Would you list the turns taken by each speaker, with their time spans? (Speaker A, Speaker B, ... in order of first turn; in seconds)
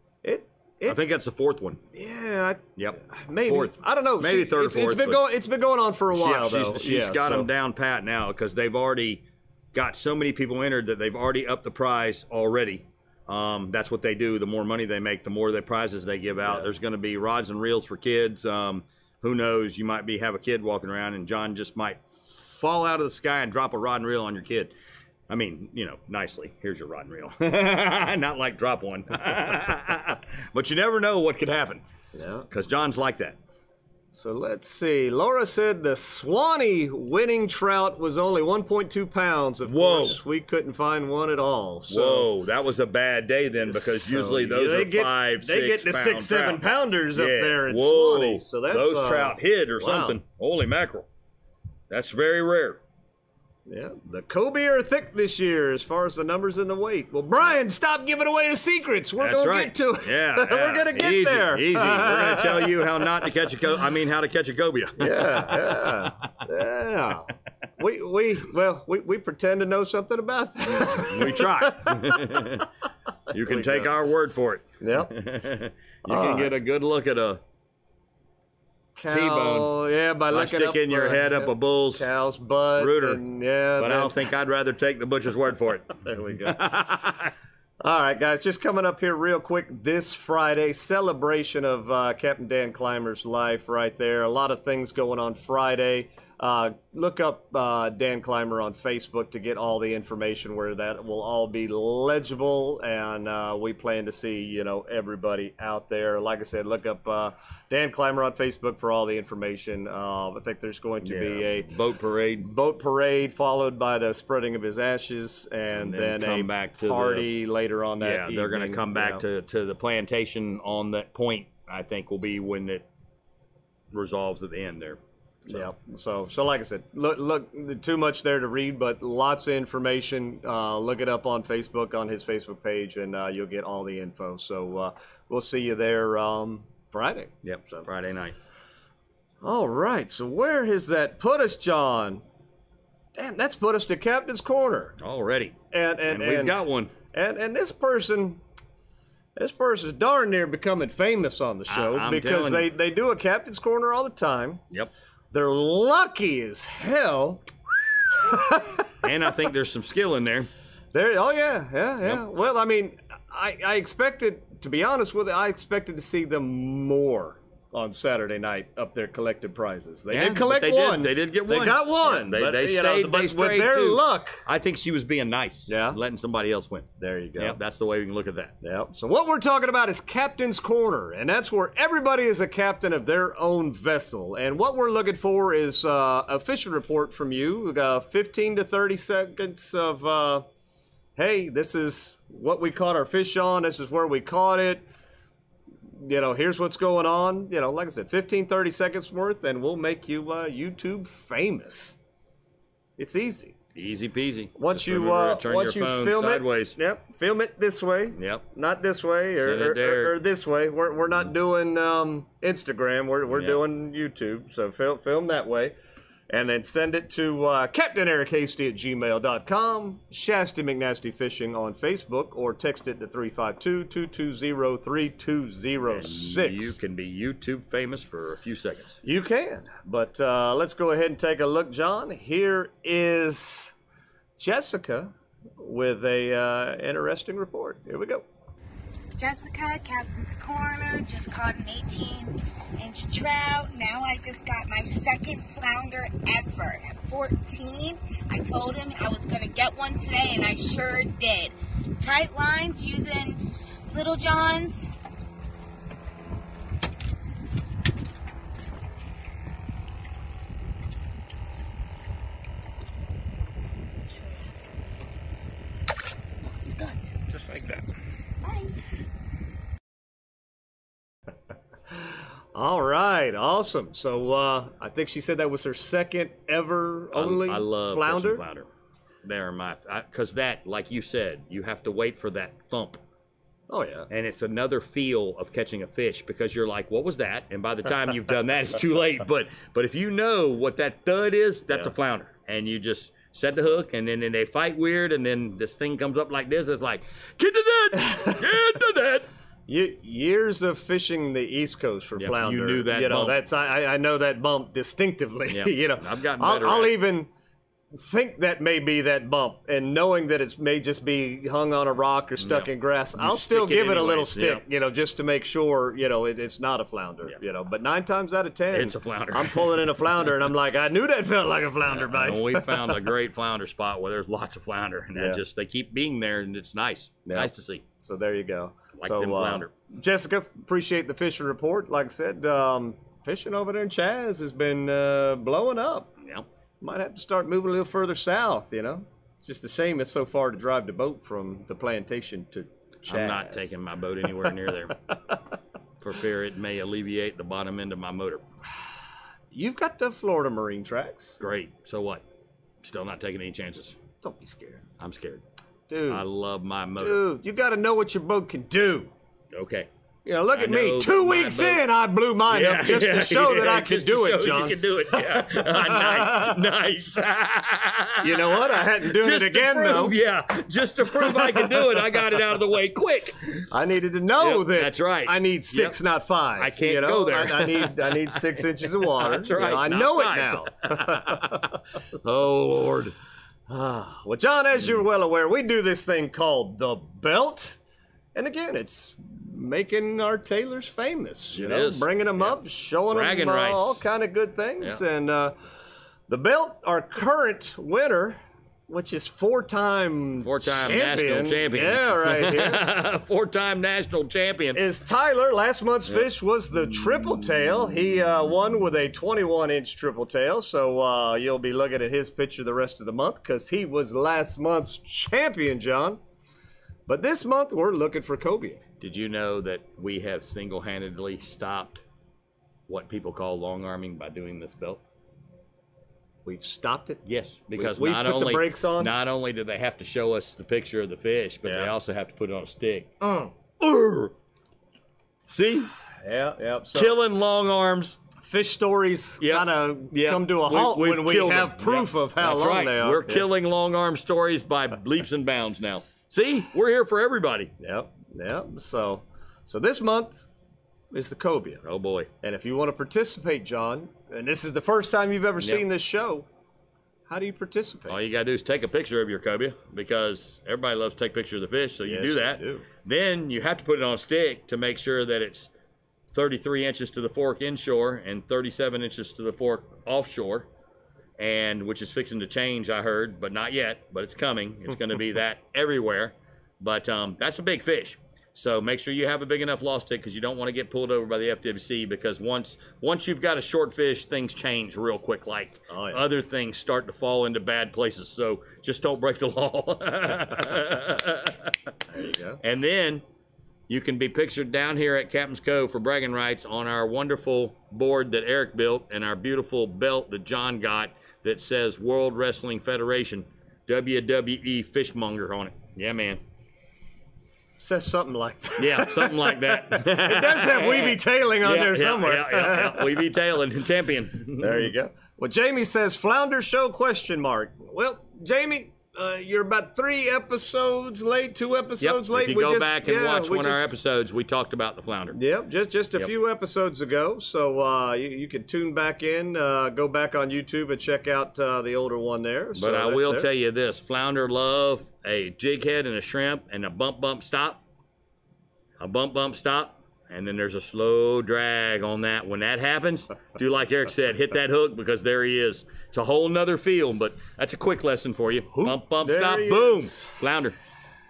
Speaker A: 0.2-1.0, 1.9-7.5, 32.1-32.5, 34.1-42.3, 43.7-50.2, 53.7-62.9, 65.0-72.6, 73.3-73.9, 74.8-75.1, 76.1-76.5, 79.0-84.2, 86.0-86.6, 87.8-111.7, 112.4-119.2, 125.5-137.9, 139.4-142.2, 143.2-145.0, 145.7-148.4, 149.4-154.6, 155.3-157.5, 158.1-158.9, 160.9-174.4, 175.7-176.0, 177.0-177.6, 178.6-190.4, 191.2-194.8, 196.0-202.0, 203.0-203.6, 204.6-215.8, 216.3-226.8, 229.0-233.7, 234.4-238.2, 272.5-278.4, 283.7-284.1, 298.0-298.4, 299.7-307.3, 307.9-323.0, 327.3-336.1, 336.8-343.7, 349.5-351.4, 354.2-354.8, 355.9-356.2, 357.0-359.1, 360.2-366.6, 368.2-370.1, 371.4-371.7, 373.7-381.8, 383.7-387.8, 388.4-395.6, 396.3-402.8, 404.7-416.2, 417.1-418.8, 426.4-429.1, 431.6-431.9, 433.2-433.5, 436.2-437.2, 438.4-443.4, 447.8-450.4, 451.1-451.8, 452.4-456.5, 457.3-458.2, 462.0-462.9, 485.9-486.2, 492.1-492.6, 507.8-513.1, 514.6-523.9, 525.3-533.5, 548.8-550.4
Speaker B: 0.9-1.8, 2.8-5.2, 6.1-24.7, 25.3-31.8, 32.5-33.4, 39.7-40.2, 41.9-51.1, 51.9-52.8, 59.2-66.3, 70.7-72.7, 73.3-77.4, 79.1-79.7, 80.3-82.1, 82.8-83.2, 83.8-87.3, 111.0-112.5, 115.7-117.3, 118.0-122.9, 123.9-125.6, 137.4-138.3, 145.0-145.6, 146.1-146.9, 151.7-152.7, 159.0-160.5, 170.1-178.6, 203.8-206.8, 208.2-208.4, 209.4-210.2, 213.3-213.6, 225.9-229.0, 267.3-267.8, 277.1-278.7, 279.2-283.0, 284.1-299.3, 302.2-303.4, 305.5-307.0, 312.4-314.6, 318.7-319.9, 321.9-327.9, 329.0-329.7, 343.1-344.9, 346.0-348.4, 351.4-352.2, 352.8-354.0, 355.0-355.4, 356.1-357.2, 359.5-359.9, 360.5-361.8, 362.5-373.7, 374.4-376.0, 376.6-381.6, 382.2-383.1, 391.6-392.5, 393.1-394.0, 400.4-404.8, 419.0-422.0, 422.9-425.0, 427.2-433.1, 433.8-434.3, 435.5-435.9, 436.9-438.2, 439.4-447.7, 451.8-452.3, 455.6-455.9, 458.1-465.7, 466.3-470.7, 471.4-491.8, 492.6-493.2, 493.9-506.4, 508.8-514.9, 522.0-525.4, 532.8-537.8, 539.0-550.8
Speaker C: 239.2-254.9